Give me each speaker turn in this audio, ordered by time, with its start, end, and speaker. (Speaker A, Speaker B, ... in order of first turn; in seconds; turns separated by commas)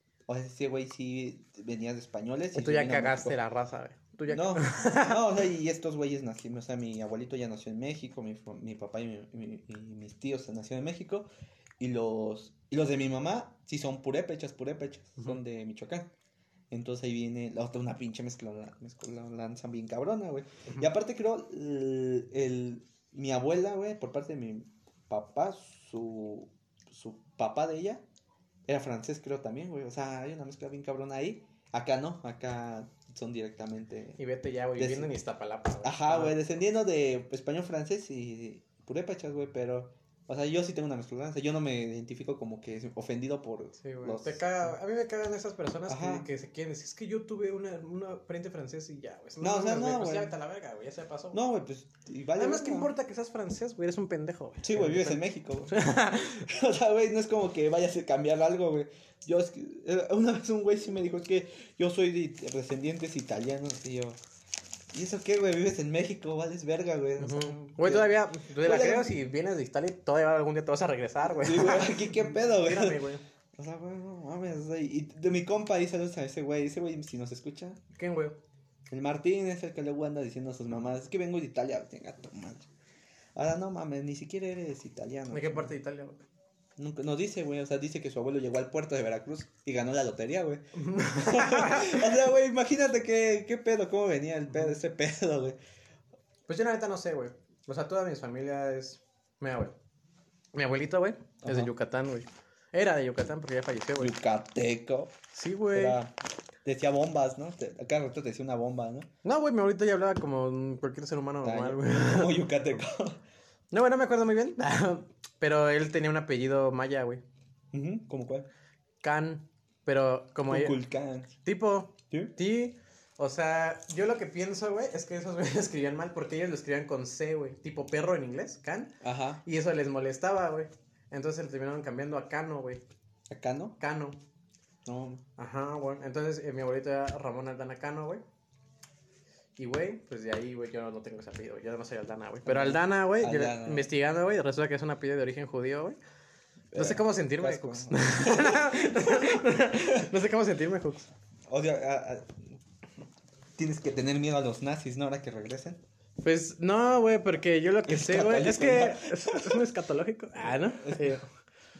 Speaker A: 0.3-3.4, Speaker B: 2.5-5.2, Speaker A: 4.3-11.3, Speaker A: 11.8-16.1, Speaker A: 16.7-28.0, Speaker A: 28.7-34.2, Speaker B: 34.2-36.4, Speaker A: 34.8-35.1, Speaker A: 35.8-44.4, Speaker B: 43.8-51.4, Speaker A: 45.9-46.3, Speaker A: 49.4-50.4, Speaker A: 51.3-52.9, Speaker B: 52.4-56.5, Speaker A: 54.6-55.9, Speaker A: 56.4-64.2, Speaker A: 64.9-69.1, Speaker B: 67.2-73.2, Speaker A: 71.2-73.0, Speaker A: 73.5-77.8, Speaker B: 78.0-78.4, Speaker A: 78.9-82.7, Speaker A: 83.3-85.7, Speaker B: 85.3-86.2, Speaker A: 86.8-95.6, Speaker B: 90.8-92.1, Speaker B: 96.5-99.8, Speaker B: 100.5-104.1, Speaker A: 101.4-101.7, Speaker A: 104.0-105.2, Speaker B: 105.3-106.0, Speaker A: 105.7-106.1, Speaker A: 106.6-109.1, Speaker B: 109.2-112.4, Speaker A: 111.4-113.2, Speaker B: 113.7-117.2, Speaker A: 117.7-118.5, Speaker B: 119.0-120.8, Speaker A: 120.5-121.3, Speaker B: 121.4-132.8, Speaker A: 129.0-129.4, Speaker A: 133.3-133.8, Speaker B: 133.8-134.2, Speaker A: 134.8-135.2, Speaker B: 135.4-138.2, Speaker B: 139.6-146.0, Speaker A: 142.4-143.9, Speaker A: 146.7-150.1, Speaker B: 146.7-151.1, Speaker A: 151.5-152.5, Speaker A: 153.6-155.8, Speaker B: 156.2-161.2, Speaker A: 157.9-159.7, Speaker A: 160.4-161.2